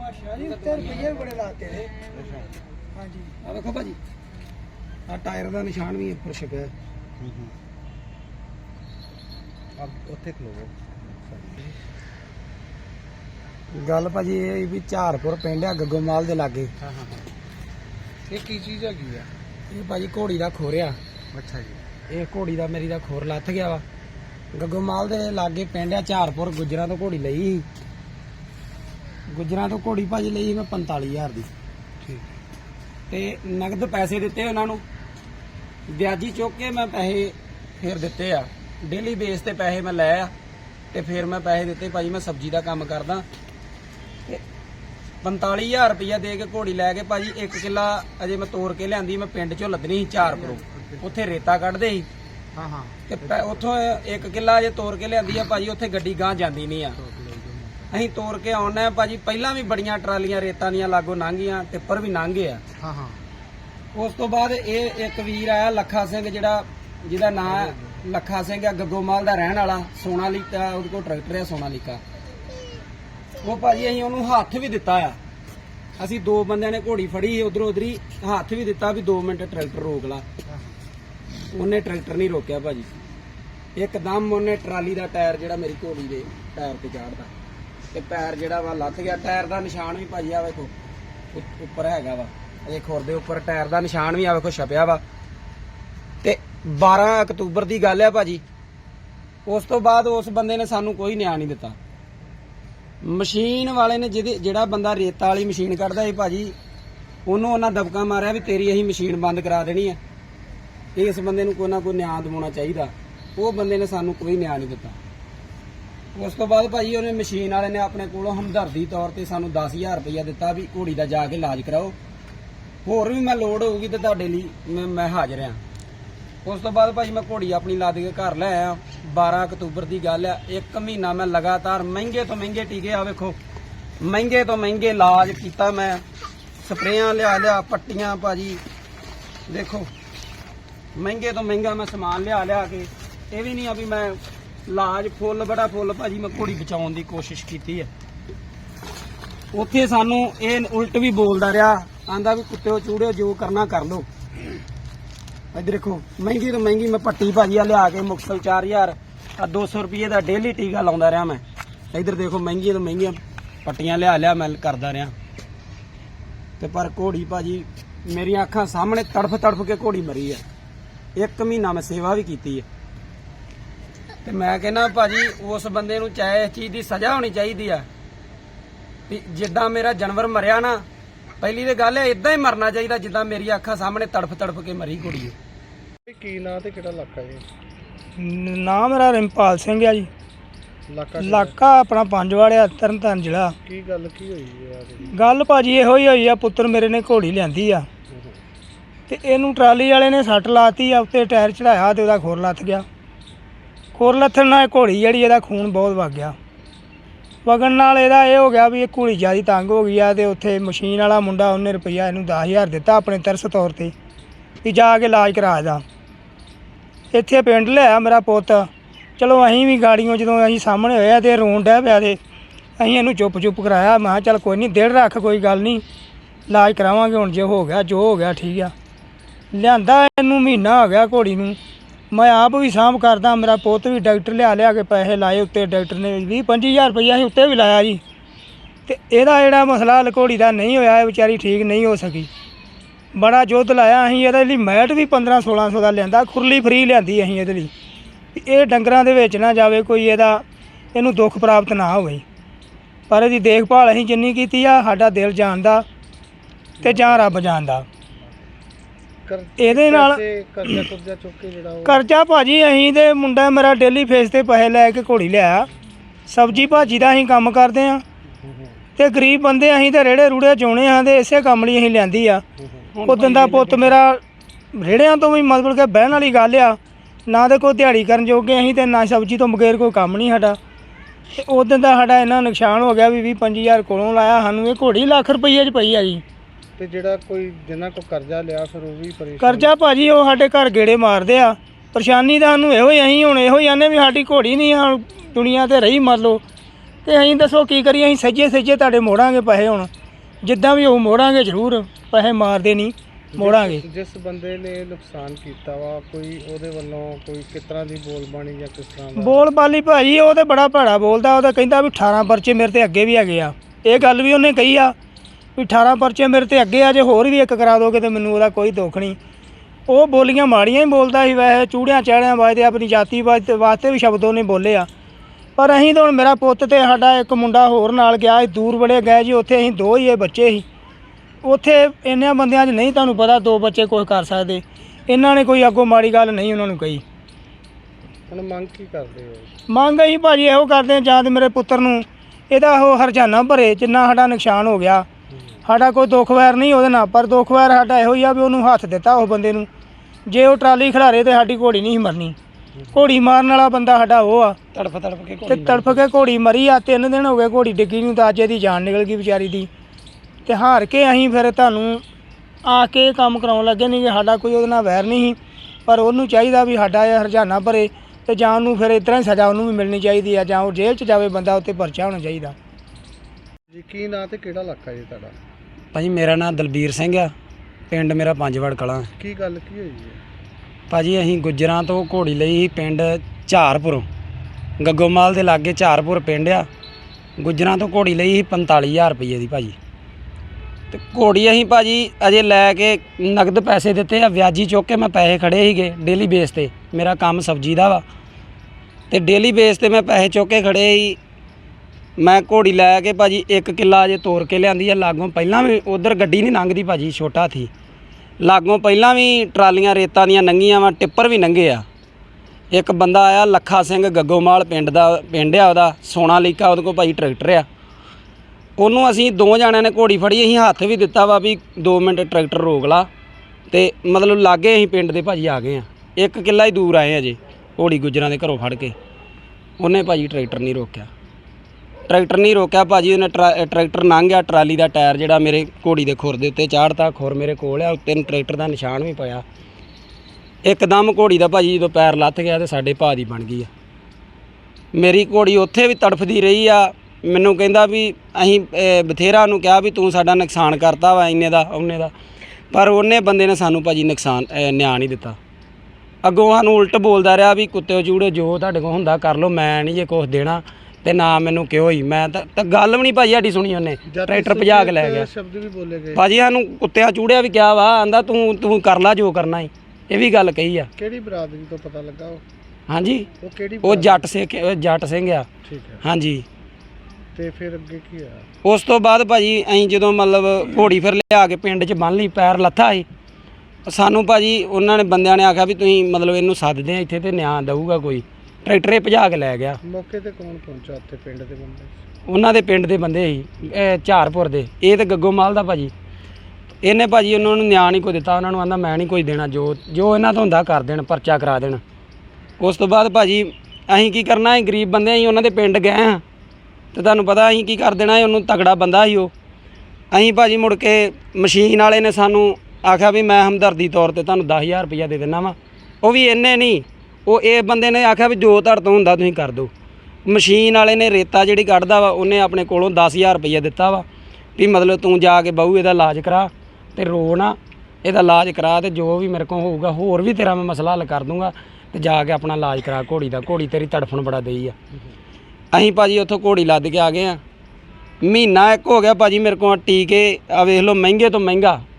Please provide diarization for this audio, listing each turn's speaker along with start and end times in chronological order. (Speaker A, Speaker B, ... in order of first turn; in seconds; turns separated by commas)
Speaker A: 0.1-1.4, Speaker B: 0.3-1.7, Speaker B: 2.9-3.2, Speaker A: 3.4-4.0, Speaker A: 5.1-6.7, Speaker C: 7.2-7.5, Speaker C: 9.8-11.7, Speaker A: 13.7-16.7, Speaker C: 16.8-17.2, Speaker C: 18.3-19.3, Speaker A: 19.7-21.0, Speaker C: 21.3-21.8, Speaker A: 22.1-23.8, Speaker A: 24.5-27.7, Speaker A: 29.3-31.5, Speaker A: 33.1-34.8, Speaker A: 35.9-40.3, Speaker A: 40.9-43.2, Speaker A: 45.2-52.1, Speaker C: 50.4-51.1, Speaker C: 52.5-53.6, Speaker A: 53.1-57.0, Speaker C: 57.0-57.9, Speaker A: 57.9-62.6, Speaker C: 62.8-63.2, Speaker A: 63.9-72.0, Speaker C: 67.6-67.9, Speaker A: 73.4-75.2, Speaker A: 76.0-80.2, Speaker A: 81.5-82.9, Speaker A: 83.8-87.3, Speaker A: 87.9-90.7, Speaker A: 91.3-95.0, Speaker A: 96.2-98.4, Speaker A: 99.5-101.8, Speaker A: 103.0-106.5, Speaker A: 107.2-110.0, Speaker A: 110.9-115.0, Speaker A: 116.1-122.0, Speaker A: 122.8-125.6, Speaker A: 126.4-133.4, Speaker A: 134.0-136.0, Speaker A: 136.6-138.6, Speaker A: 139.5-139.9, Speaker A: 140.9-147.9, Speaker A: 149.5-154.1, Speaker A: 155.5-165.1, Speaker A: 166.6-170.4, Speaker A: 171.2-172.7, Speaker A: 174.2-177.9, Speaker A: 179.1-180.8, Speaker A: 181.4-185.3, Speaker C: 186.1-187.4, Speaker B: 188.2-190.1, Speaker C: 190.9-191.5, Speaker B: 191.2-193.5, Speaker C: 193.6-195.1, Speaker B: 195.1-197.9, Speaker C: 198.1-198.4, Speaker B: 199.1-202.8, Speaker B: 203.9-206.3, Speaker B: 207.4-213.9, Speaker B: 214.6-215.8, Speaker B: 217.1-222.2, Speaker B: 222.8-225.8, Speaker B: 226.5-228.7, Speaker B: 229.5-231.6, Speaker B: 232.1-238.0, Speaker B: 238.8-242.3, Speaker B: 243.1-247.7, Speaker B: 248.3-252.2, Speaker B: 253.1-255.8, Speaker B: 256.8-257.9, Speaker C: 256.9-257.2, Speaker C: 259.2-262.0, Speaker B: 259.6-260.8, Speaker B: 261.8-265.7, Speaker B: 266.3-268.0, Speaker C: 268.4-268.8, Speaker B: 269.0-272.4, Speaker A: 272.9-274.0, Speaker B: 273.0-274.2, Speaker B: 274.7-280.6, Speaker B: 281.3-286.2, Speaker C: 286.8-289.7, Speaker B: 289.4-296.4, Speaker B: 297.0-299.9, Speaker B: 300.4-303.8, Speaker C: 303.3-309.4, Speaker B: 309.1-314.9, Speaker B: 315.6-319.2, Speaker B: 319.9-324.9, Speaker B: 325.6-330.6, Speaker B: 331.4-337.0, Speaker C: 338.3-339.5, Speaker B: 339.7-345.1, Speaker B: 345.6-349.7, Speaker B: 350.3-352.4, Speaker B: 352.9-354.6, Speaker A: 354.7-356.0, Speaker B: 355.5-359.7, Speaker B: 360.4-362.0, Speaker B: 362.6-372.5, Speaker C: 373.7-375.3, Speaker A: 375.9-377.3, Speaker A: 377.9-379.1, Speaker C: 379.2-380.2, Speaker A: 380.9-384.1, Speaker A: 384.8-386.7, Speaker A: 387.4-389.8, Speaker A: 390.9-398.0, Speaker A: 399.1-401.2, Speaker A: 402.2-407.7, Speaker A: 408.4-411.8, Speaker A: 412.7-417.6, Speaker A: 418.8-423.1, Speaker A: 423.7-428.9, Speaker A: 429.8-431.1, Speaker A: 432.1-439.4, Speaker A: 440.6-443.7, Speaker A: 444.9-452.1, Speaker A: 452.7-455.4, Speaker A: 456.2-465.3, Speaker C: 464.1-466.2, Speaker A: 466.1-470.9, Speaker C: 470.9-472.4, Speaker A: 472.9-473.3, Speaker C: 473.4-474.2, Speaker A: 473.8-475.5, Speaker C: 475.6-476.0, Speaker A: 476.0-476.4, Speaker C: 477.3-478.4, Speaker A: 478.6-483.0, Speaker A: 483.9-489.8, Speaker C: 489.8-491.9, Speaker A: 492.3-495.9, Speaker A: 496.8-501.8, Speaker A: 502.6-506.2, Speaker A: 506.9-509.3, Speaker A: 510.1-519.7, Speaker A: 520.2-524.0, Speaker A: 524.6-534.7, Speaker A: 535.7-537.4, Speaker A: 538.2-541.8